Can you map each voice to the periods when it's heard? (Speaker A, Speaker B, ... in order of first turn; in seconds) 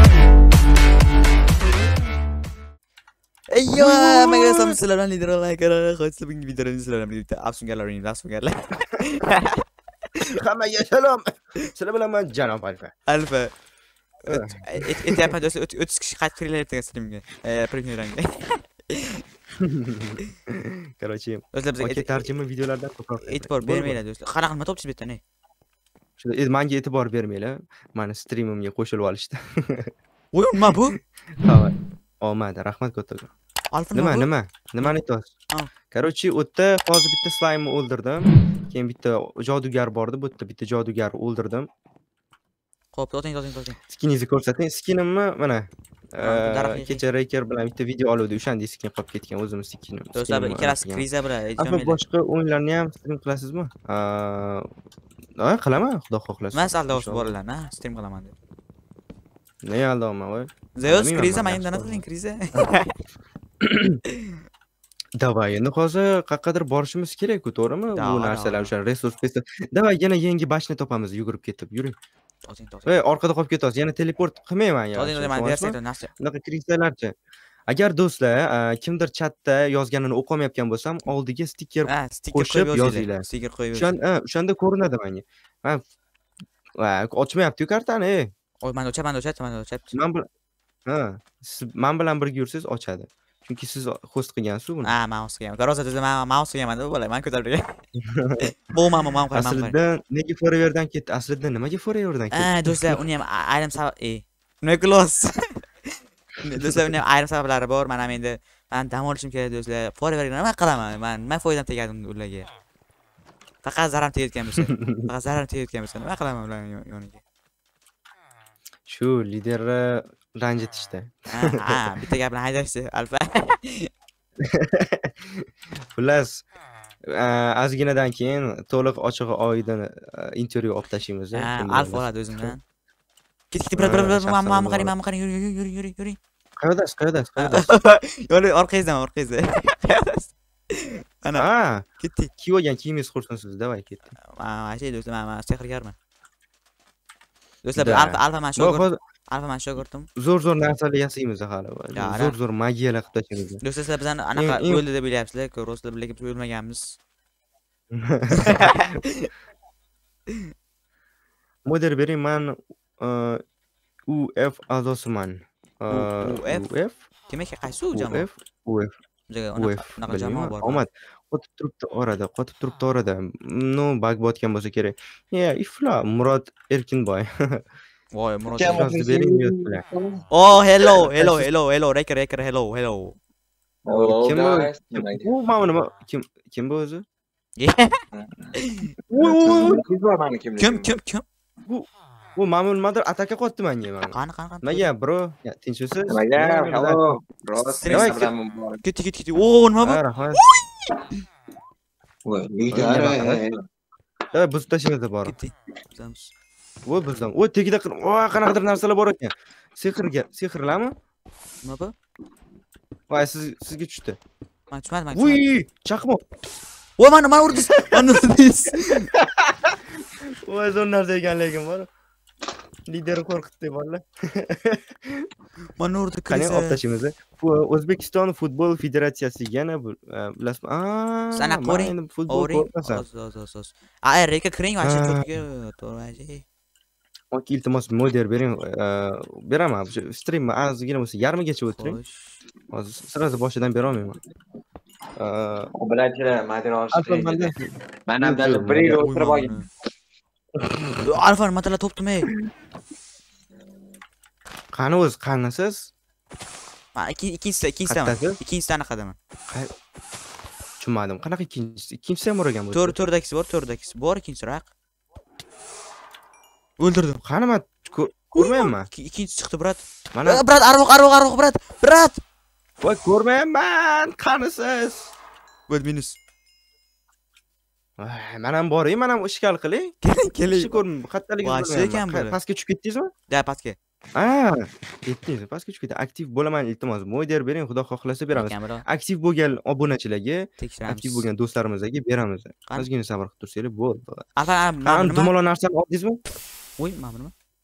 Speaker A: 3.5-9.6, 13.1-13.5, 14.2-19.2, 21.5-22.3, 23.2-25.2, 30.3-31.0, 33.7-34.3, 42.9-43.8, 46.2-47.0, 50.1-52.0, 56.5-58.3, 60.8-63.0, 64.1-64.4, 68.0-68.7, 72.4-73.0, 74.9-76.1, 81.9-84.0, 88.6-90.0, 94.8-97.8, 98.4-99.8, 102.3-112.5, 113.6-117.2, 121.3-123.9, 131.3-132.6, 133.5-136.2, 137.4-141.5, 142.0-142.3, 144.2-146.0, 147.6-150.1, 151.9-152.4, 153.6-157.0, 158.3-159.3, 165.9-166.7, 167.3-168.3, 169.3-170.8, 178.1-178.9, 180.3-183.2, 187.6-188.0, 188.6-188.9, 190.6-191.2, 194.1-194.9, 197.6-200.6, 205.2-206.3, 211.6-211.9, 214.7-215.4, 217.0-219.1, 225.8-226.8, 231.3-236.4, 241.8-242.4, 248.9-249.7, 251.0-252.3, 256.9-259.2, 262.7-264.7, 266.8-267.2, 268.4-272.2, 275.7-276.2, 280.0-280.8, 281.4-282.4, 283.3-283.8, 288.3-288.9, 290.6-291.3, 294.4-295.3, 296.8-297.3
Speaker B: 3.8-4.8, 10.3-12.9, 14.3-15.3, 19.6-24.0, 26.2-29.9, 31.4-33.3, 33.9-35.3, 35.9-41.7, 43.9-51.0, 51.6-54.7, 55.4-57.4, 59.6-62.0, 63.6-64.0, 65.2-72.0, 72.9-77.1, 77.7-85.8, 86.8-88.3, 89.9-90.3, 90.9-94.9, 98.0-98.5, 99.3-103.0, 106.6-106.8, 114.6-115.1, 118.9-121.8, 124.4-126.4, 127.1-132.6, 133.8-134.9, 136.6-137.7, 141.3-144.1, 147.8-149.0, 150.2-153.6, 154.3-154.8, 157.9-158.8, 161.7-163.4, 164.1-167.0, 167.9-168.9, 169.6-177.7, 178.6-179.8, 181.2-181.5, 183.9-187.1, 189.1-189.8, 191.7-197.0, 197.9-198.3, 199.8-200.4, 202.7-203.4, 204.3-205.4, 206.9-210.9, 213.1-214.2, 215.1-216.2, 217.5-218.2, 218.8-221.9, 222.9-225.3, 226.3-233.1, 234.8-235.3, 237.3-242.0, 242.7-244.2, 245.2-245.7, 246.9-247.7, 248.2-249.1, 250.6-251.0, 254.7-255.9, 257.9-258.4, 260.8-263.0, 267.2-268.9, 270.1-270.4, 272.8-275.1, 278.0-283.1, 284.1-294.2, 294.9-296.2
Speaker C: 178.6-180.2, 183.8-185.3, 188.1-188.5, 189.1-190.9, 196.1-198.8, 202.2-203.6, 245.8-247.5, 248.1-249.5